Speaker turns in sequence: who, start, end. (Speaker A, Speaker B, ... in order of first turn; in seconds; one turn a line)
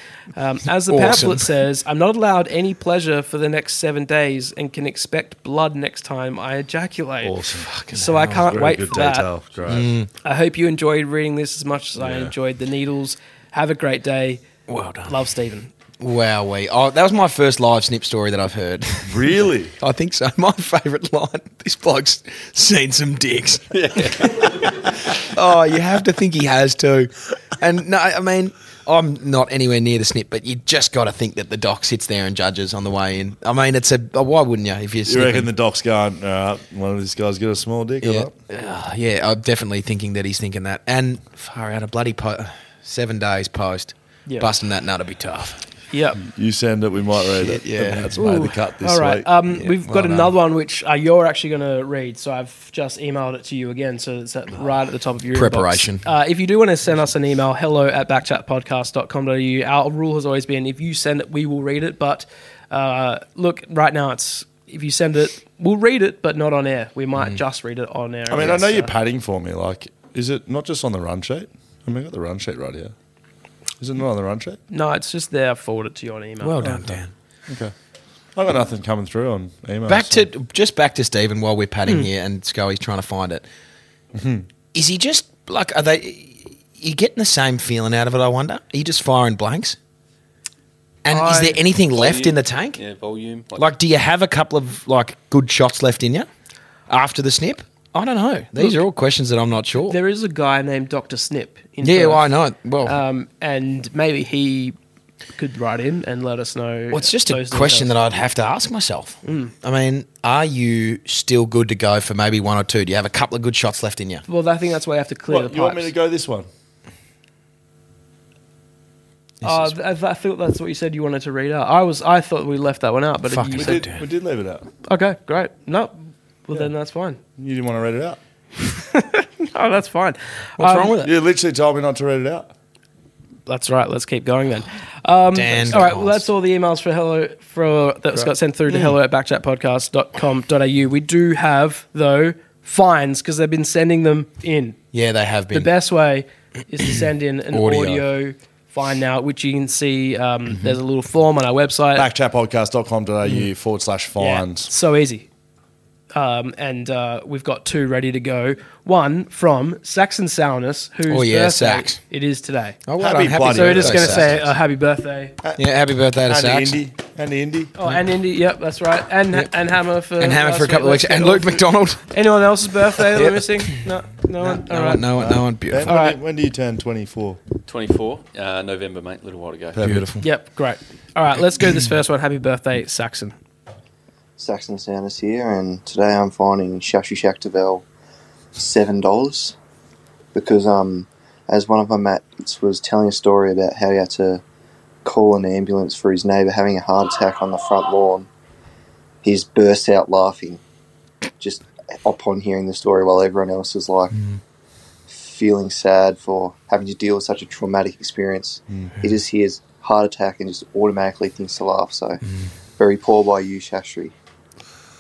Speaker A: 0.3-7.3
Speaker B: 0.9-1.5
Speaker C: 7.2-7.7
Speaker B: 7.5-8.7
Speaker A: 7.9-9.3
Speaker C: 8.4-10.0
Speaker B: 9.7-10.1
Speaker A: 10.2-14.4
Speaker C: 12.0-12.3
Speaker B: 14.7-15.2
Speaker A: 15.1-15.7
Speaker B: 16.0-35.5
Speaker C: 19.1-19.8
Speaker D: 23.7-24.6
Speaker C: 35.1-38.3
Speaker B: 38.0-45.6
Speaker A: 45.9-46.2
Speaker C: 46.2-49.3
Speaker B: 47.4-48.1
Speaker A: 48.1-68.9
Speaker B: 49.5-50.4
Speaker B: 55.3-56.0
Speaker C: 68.3-72.9
Speaker C: 73.8-74.6
Speaker A: 74.7-76.6
Speaker B: 76.4-77.1
Speaker C: 76.6-77.0
Speaker C: 77.5-77.7
Speaker C: 78.3-80.2
Speaker B: 79.9-83.5
Speaker C: 84.1-84.5
Speaker B: 84.7-89.8
Speaker B: 91.0-92.8
Speaker A: 91.1-91.6
Speaker D: 91.9-93.7
Speaker B: 93.6-96.3
Speaker B: 96.9-100.0
Speaker A: 99.9-102.3
Speaker B: 101.8-103.0
Speaker A: 102.9-104.8
Speaker A: 105.4-107.9
Speaker B: 106.9-114.2
Speaker A: 109.2-109.5
Speaker A: 114.3-115.9
Speaker C: 115.3-116.5
Speaker B: 119.4-119.7
Speaker A: 119.4-123.9
Speaker B: 123.3-124.1
Speaker C: 123.5-124.7
Speaker A: 124.8-127.2
Speaker C: 127.4-128.2
Speaker A: 128.8-131.0
Speaker B: 130.6-131.2
Speaker C: 131.0-132.5
Speaker A: 133.5-144.8
Speaker B: 135.3-136.3
Speaker B: 138.1-139.0
Speaker B: 144.9-145.7
Speaker A: 145.5-152.1
Speaker B: 147.5-148.1
Speaker B: 150.5-150.8
Speaker C: 151.9-154.7
Speaker B: 153.2-153.5
Speaker A: 154.2-155.3
Speaker A: 156.1-162.8
Speaker B: 161.1-162.0
Speaker B: 162.8-164.5
Speaker C: 163.0-164.5
Speaker A: 163.4-165.3
Speaker B: 165.6-166.8
Speaker C: 166.2-167.8
Speaker A: 167.8-175.1
Speaker B: 170.2-172.1
Speaker B: 172.9-173.8
Speaker B: 174.4-175.9
Speaker C: 175.1-177.4
Speaker A: 175.9-176.2
Speaker D: 177.7-179.9
Speaker C: 179.8-180.1
Speaker B: 179.8-180.3
Speaker A: 180.2-183.4
Speaker E: 184.4-187.9
Speaker E: 188.6-189.6
Speaker E: 190.3-194.4
Speaker E: 195.0-198.3
Speaker E: 199.2-200.6
Speaker E: 201.4-204.2
Speaker E: 205.1-212.2
Speaker E: 212.8-214.1